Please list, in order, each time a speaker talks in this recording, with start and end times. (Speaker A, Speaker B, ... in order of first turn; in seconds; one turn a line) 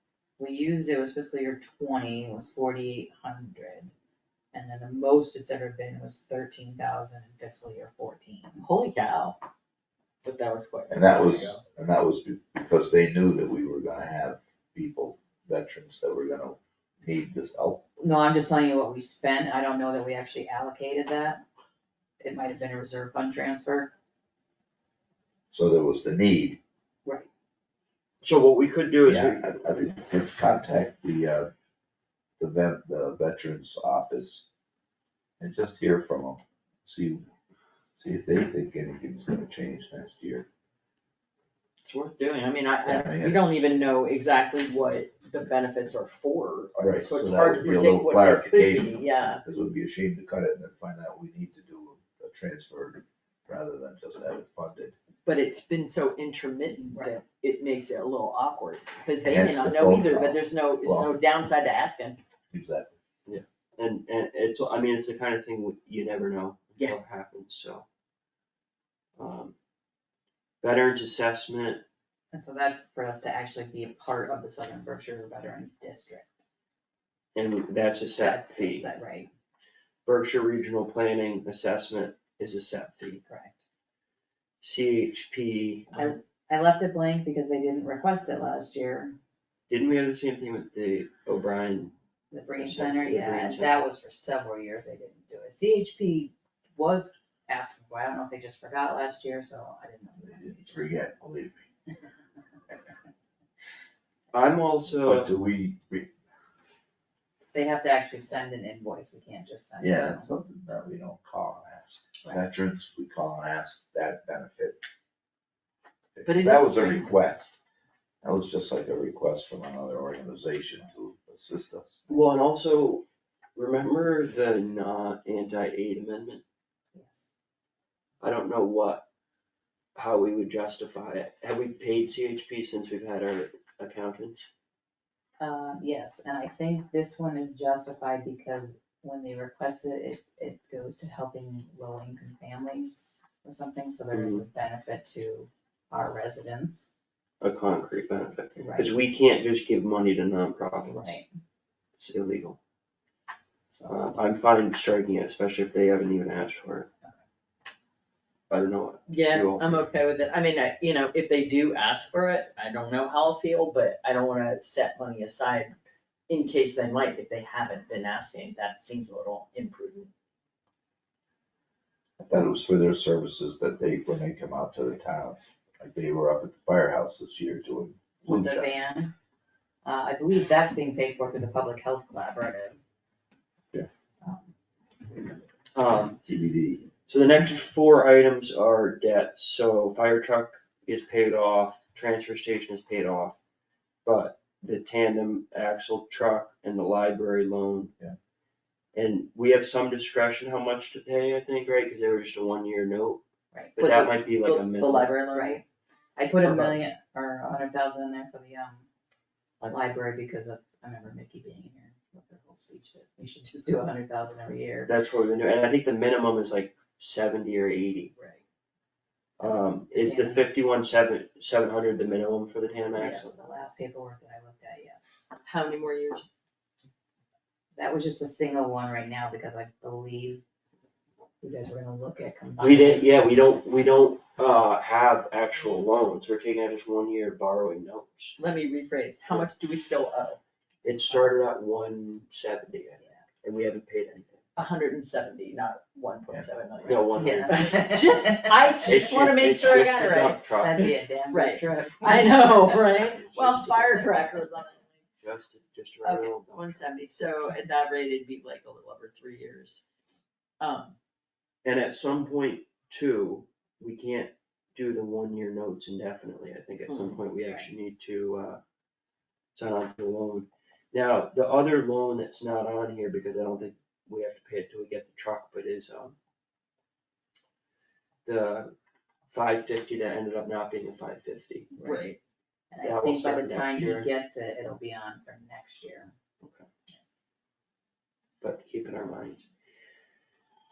Speaker A: 0.4-3.9
Speaker A: 4.5-8.6
Speaker B: 8.6-9.4
Speaker B: 10.2-11.6
Speaker C: 10.9-17.8
Speaker A: 18.0-21.4
Speaker A: 22.2-23.9
Speaker C: 25.5-26.6
Speaker D: 28.2-29.6
Speaker C: 29.1-31.5
Speaker C: 32.4-34.5
Speaker C: 35.4-37.2
Speaker C: 38.0-40.5
Speaker B: 41.8-49.4
Speaker C: 42.8-43.6
Speaker C: 46.8-55.0
Speaker B: 55.2-62.2
Speaker C: 59.2-61.1
Speaker C: 62.5-62.9
Speaker D: 63.2-67.8
Speaker D: 69.2-69.5
Speaker D: 70.6-71.8
Speaker A: 72.3-76.4
Speaker D: 77.3-78.9
Speaker A: 78.2-79.3
Speaker D: 80.0-83.2
Speaker A: 83.3-83.6
Speaker D: 84.6-86.0
Speaker A: 85.9-89.2
Speaker D: 89.7-91.9
Speaker A: 92.3-100.9
Speaker D: 92.6-93.9
Speaker C: 100.2-101.7
Speaker D: 104.3-105.3
Speaker C: 105.0-106.1
Speaker A: 107.5-110.3
Speaker C: 109.8-114.8
Speaker C: 116.1-117.6
Speaker B: 116.2-117.2
Speaker C: 118.2-122.1
Speaker D: 122.1-126.4
Speaker A: 126.9-127.2
Speaker D: 128.2-129.1
Speaker D: 129.9-134.4
Speaker A: 135.4-146.9
Speaker D: 144.1-144.4
Speaker D: 147.4-151.2
Speaker A: 148.6-148.9
Speaker A: 150.8-151.3
Speaker D: 152.0-152.6
Speaker D: 153.8-156.9
Speaker D: 158.5-159.8
Speaker B: 159.1-165.8
Speaker B: 166.3-170.1
Speaker C: 172.2-178.7
Speaker A: 178.2-179.1
Speaker A: 179.8-182.8
Speaker A: 184.2-184.5
Speaker D: 185.7-186.2
Speaker C: 186.2-186.9
Speaker D: 187.1-193.4
Speaker D: 194.0-197.9
Speaker D: 198.9-203.2
Speaker A: 203.5-203.8
Speaker D: 203.8-205.2
Speaker B: 203.8-205.6
Speaker A: 205.3-205.6
Speaker A: 206.2-208.9
Speaker B: 206.4-206.8
Speaker A: 209.6-214.9
Speaker D: 214.8-218.1
Speaker D: 219.4-223.4
Speaker A: 219.4-220.5
Speaker A: 222.9-225.3
Speaker B: 225.4-226.3
Speaker A: 227.8-230.4
Speaker A: 231.4-233.2
Speaker D: 232.6-238.4
Speaker B: 238.4-240.4
Speaker D: 240.8-244.4
Speaker B: 244.6-250.4
Speaker D: 246.8-247.9
Speaker A: 247.1-248.9
Speaker D: 248.8-250.9
Speaker A: 250.5-252.9
Speaker B: 251.3-255.0
Speaker D: 253.2-254.0
Speaker D: 255.2-256.6
Speaker B: 256.0-259.8
Speaker B: 260.6-260.9
Speaker D: 261.6-268.6
Speaker B: 266.9-267.2
Speaker D: 269.5-276.1
Speaker D: 278.2-278.7
Speaker D: 279.3-281.7
Speaker A: 281.7-282.1
Speaker B: 281.8-282.2
Speaker A: 282.7-286.1
Speaker D: 282.8-284.1
Speaker D: 286.4-286.7
Speaker D: 288.4-289.5